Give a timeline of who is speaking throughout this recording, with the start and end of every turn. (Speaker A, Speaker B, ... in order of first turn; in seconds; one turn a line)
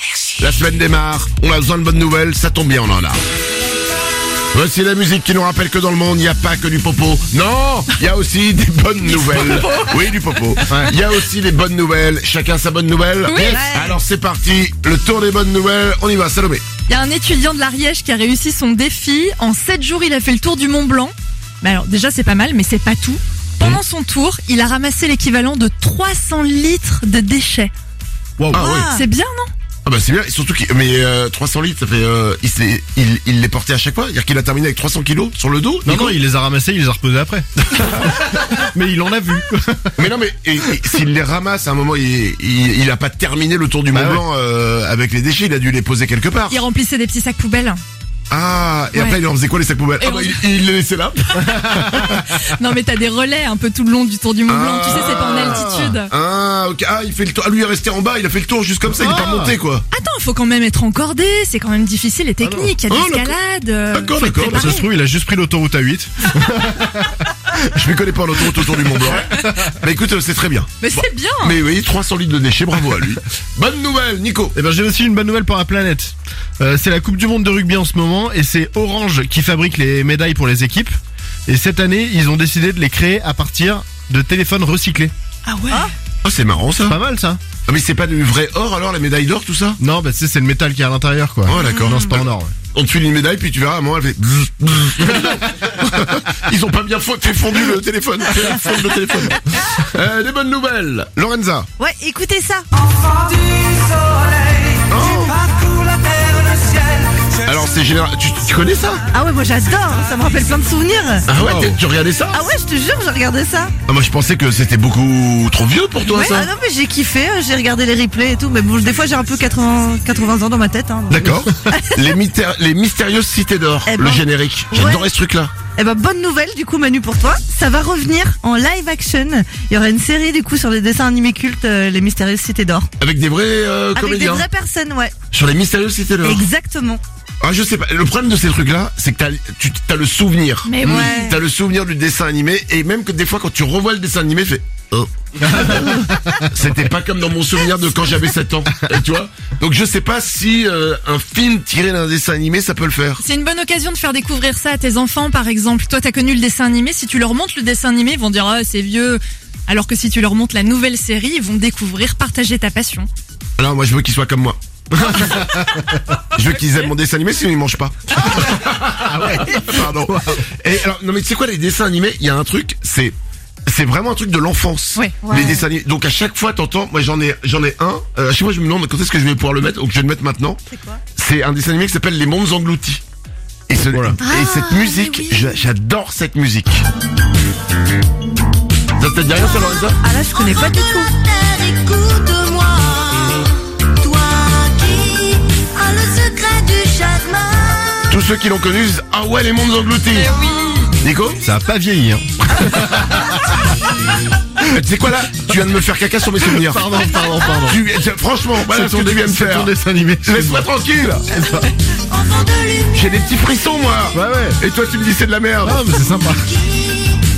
Speaker A: 0.4-3.2
Speaker A: 4.5-16.6
Speaker B: 9.3-9.8
Speaker C: 10.7-10.9
Speaker B: 13.2-13.6
Speaker D: 13.3-14.0
Speaker B: 16.9-27.7
Speaker A: 28.5-28.9
Speaker D: 28.5-29.1
Speaker B: 28.8-29.5
Speaker A: 29.8-36.2
Speaker C: 35.8-40.1
Speaker A: 40.0-46.6
Speaker C: 43.9-44.2
Speaker B: 46.5-47.8
Speaker A: 48.3-52.0
Speaker B: 48.9-49.2
Speaker B: 50.0-50.4
Speaker C: 51.5-52.1
Speaker B: 52.0-56.1
Speaker A: 54.5-59.8
Speaker C: 55.3-55.9
Speaker C: 58.9-59.6
Speaker B: 59.9-64.9
Speaker C: 62.4-62.8
Speaker A: 62.9-63.3
Speaker A: 63.9-64.7
Speaker C: 64.5-67.3
Speaker A: 67.5-74.5
Speaker C: 69.3-69.7
Speaker B: 70.8-71.6
Speaker C: 74.5-80.9
Speaker C: 81.5-85.1
Speaker B: 85.5-85.9
Speaker A: 86.2-87.0
Speaker C: 86.8-87.4
Speaker A: 87.7-89.8
Speaker C: 89.8-92.5
Speaker A: 91.5-101.7
Speaker D: 91.6-92.1
Speaker D: 101.8-104.0
Speaker A: 104.9-105.4
Speaker D: 105.1-106.9
Speaker A: 107.4-109.0
Speaker D: 109.1-111.7
Speaker A: 111.3-112.4
Speaker D: 112.3-113.7
Speaker A: 113.9-116.5
Speaker D: 116.1-122.1
Speaker A: 121.1-125.5
Speaker D: 123.9-125.0
Speaker D: 125.8-132.9
Speaker A: 133.0-134.4
Speaker D: 133.9-135.1
Speaker A: 135.3-136.5
Speaker D: 136.2-137.0
Speaker A: 137.4-153.2
Speaker B: 140.6-141.4
Speaker D: 140.8-141.3
Speaker C: 145.5-146.4
Speaker B: 153.2-163.1
Speaker A: 163.6-165.7
Speaker C: 165.5-166.0
Speaker A: 166.3-173.2
Speaker C: 168.9-170.4
Speaker A: 173.7-180.6
Speaker B: 174.9-175.6
Speaker D: 180.7-181.0
Speaker A: 181.1-183.0
Speaker A: 183.7-186.8
Speaker C: 183.9-184.2
Speaker B: 184.2-185.5
Speaker A: 188.9-190.0
Speaker D: 190.0-191.1
Speaker E: 190.3-198.0
Speaker A: 198.1-200.3
Speaker B: 200.1-200.9
Speaker A: 201.0-201.4
Speaker C: 201.4-203.7
Speaker A: 204.7-206.8
Speaker C: 206.4-207.8
Speaker A: 207.7-211.3
Speaker C: 208.6-210.7
Speaker C: 211.3-211.7
Speaker E: 212.1-212.9
Speaker A: 212.9-215.8
Speaker C: 214.1-214.6
Speaker C: 215.6-216.7
Speaker E: 216.7-217.2